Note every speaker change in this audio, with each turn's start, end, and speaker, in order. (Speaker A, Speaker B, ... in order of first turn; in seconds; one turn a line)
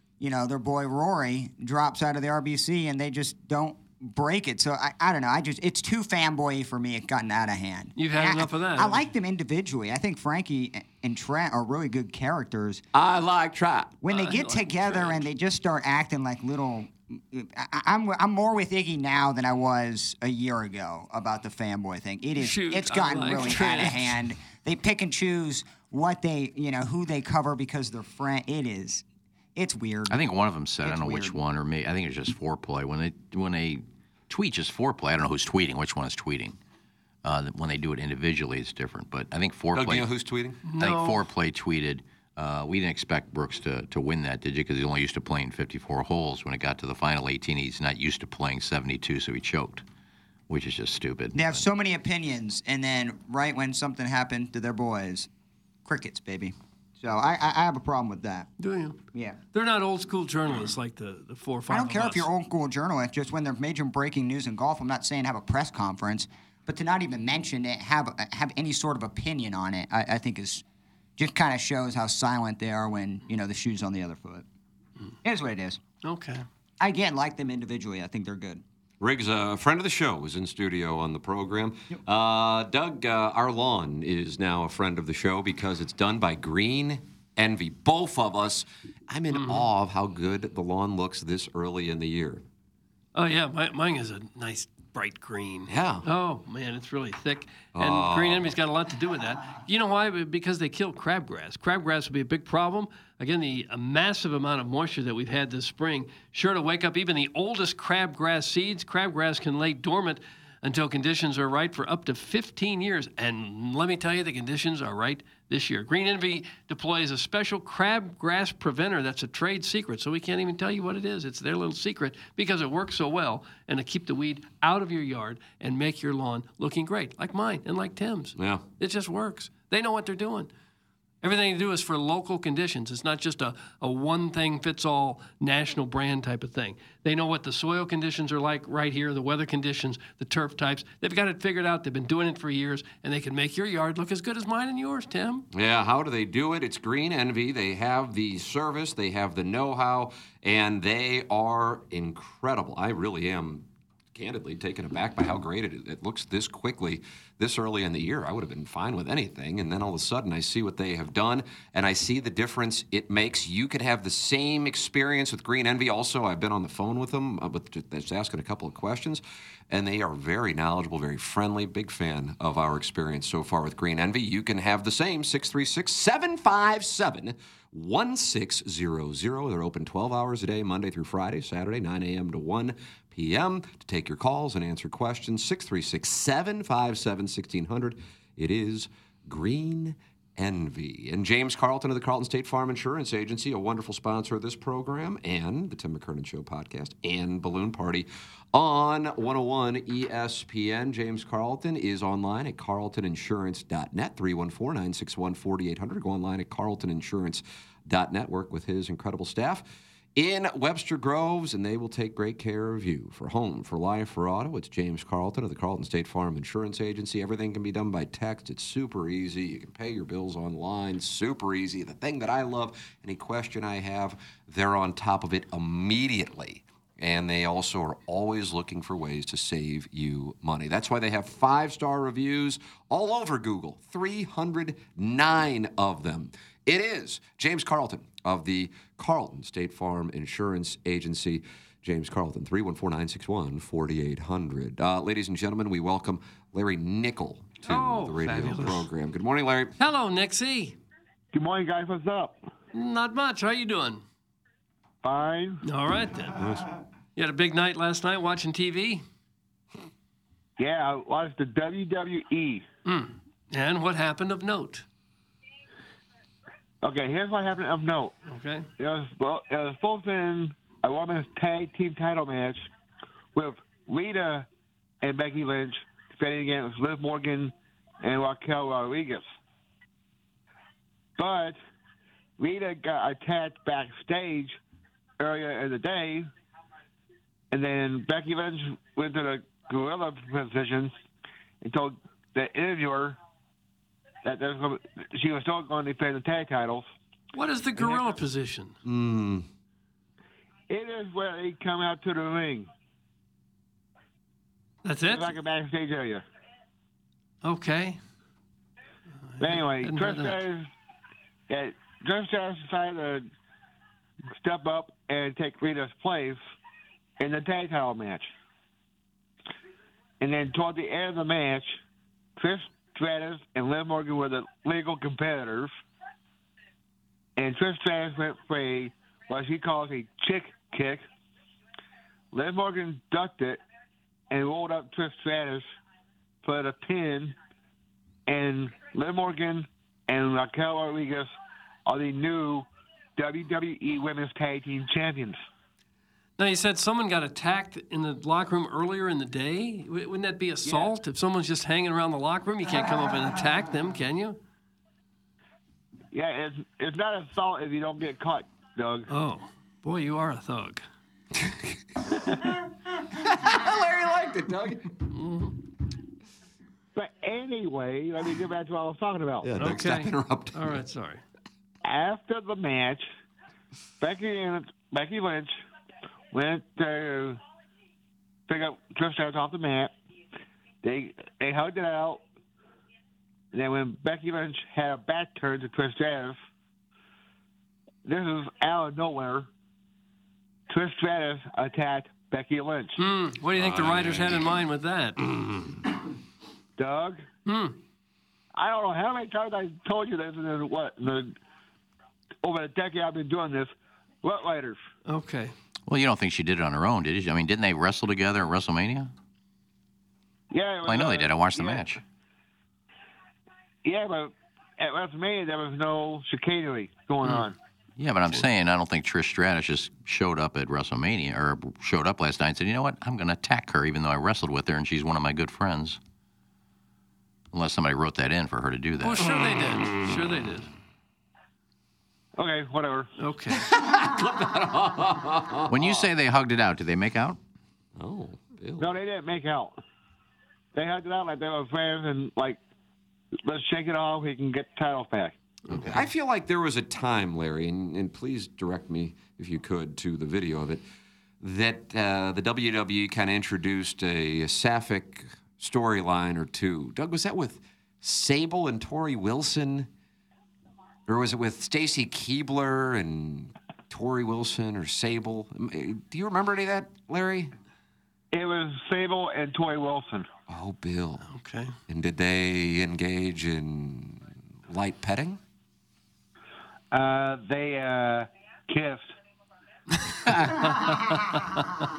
Speaker A: 0.2-12.8
Speaker B: 8.0-9.0
Speaker C: 12.9-14.0
Speaker A: 14.0-30.2
Speaker B: 14.1-15.2
Speaker B: 22.4-24.1
Speaker D: 30.1-36.6
Speaker A: 30.8-31.4
Speaker D: 37.2-40.1
Speaker C: 39.7-40.6
Speaker B: 40.6-41.2
Speaker D: 40.8-49.8
Speaker D: 50.5-51.6
Speaker A: 51.3-55.3
Speaker A: 55.8-58.5
Speaker B: 58.6-59.0
Speaker B: 59.5-62.3
Speaker A: 61.7-70.6
Speaker A: 71.2-74.4
Speaker A: 75.2-75.8
Speaker B: 76.0-76.5
Speaker A: 76.8-78.6
Speaker C: 79.0-92.4
Speaker B: 89.3-89.7
Speaker B: 93.1-130.5
Speaker C: 95.7-96.0
Speaker C: 97.7-98.5
Speaker C: 128.3-128.6
Speaker B: 131.2-145.5
Speaker C: 145.5-209.6
Speaker C: 210.2-249.7
Speaker B: 247.6-248.8
Speaker B: 249.8-250.8
Speaker E: 251.3-252.4
Speaker B: 252.7-254.0
Speaker E: 255.0-255.6
Speaker B: 255.6-256.4
Speaker C: 256.4-256.7
Speaker B: 257.1-259.0
Speaker E: 260.6-262.6
Speaker B: 262.8-264.8
Speaker E: 266.8-268.1
Speaker B: 268.3-268.7
Speaker E: 268.8-272.7
Speaker E: 273.3-274.4
Speaker E: 275.0-279.2
Speaker E: 281.2-281.6
Speaker E: 282.4-284.6
Speaker E: 285.2-286.3
Speaker E: 287.5-290.9
Speaker E: 291.6-293.2
Speaker E: 294.2-296.9
Speaker B: 297.3-298.7
Speaker C: 298.8-299.5
Speaker E: 300.7-302.7
Speaker B: 304.8-305.3
Speaker E: 305.0-306.2
Speaker B: 307.4-308.0
Speaker B: 309.2-310.4
Speaker E: 309.4-310.7
Speaker E: 311.5-313.2
Speaker E: 314.4-316.4
Speaker E: 317.2-318.3
Speaker E: 320.2-321.7
Speaker E: 322.4-325.7
Speaker E: 327.4-331.0
Speaker E: 332.3-333.6
Speaker E: 334.3-335.6
Speaker E: 336.4-337.3
Speaker E: 338.3-341.3
Speaker E: 341.9-342.6
Speaker E: 343.2-345.4
Speaker B: 346.4-354.4
Speaker E: 356.1-359.1
Speaker B: 359.1-360.8
Speaker C: 361.4-362.4
Speaker C: 363.1-364.9
Speaker B: 365.1-365.6
Speaker E: 366.9-369.5
Speaker C: 369.4-370.8
Speaker B: 369.6-371.2
Speaker E: 371.8-373.1
Speaker E: 374.0-375.5
Speaker E: 376.3-377.4
Speaker E: 378.5-379.9
Speaker E: 380.8-382.2
Speaker E: 383.5-386.4
Speaker E: 388.1-389.5
Speaker E: 390.7-393.0
Speaker B: 393.0-395.2
Speaker E: 396.8-397.2
Speaker B: 397.4-397.8
Speaker E: 398.6-401.3
Speaker E: 402.4-403.7
Speaker E: 404.2-404.8
Speaker B: 405.1-405.5
Speaker D: 405.9-409.1
Speaker E: 410.5-412.0
Speaker D: 410.8-412.0
Speaker E: 413.8-417.6
Speaker D: 418.0-426.0
Speaker D: 427.5-429.3
Speaker B: 429.0-430.7
Speaker E: 432.4-433.1
Speaker B: 433.2-433.7
Speaker C: 433.6-436.1
Speaker D: 435.7-437.4
Speaker C: 438.0-438.9
Speaker E: 438.8-439.8
Speaker E: 440.7-442.6
Speaker E: 443.4-445.4
Speaker B: 445.7-446.0
Speaker C: 445.7-450.8
Speaker C: 451.4-459.9
Speaker C: 461.1-467.5
Speaker E: 468.3-470.3
Speaker C: 470.5-471.2
Speaker B: 471.3-471.8
Speaker C: 471.9-475.4
Speaker E: 476.9-479.1
Speaker B: 480.0-481.6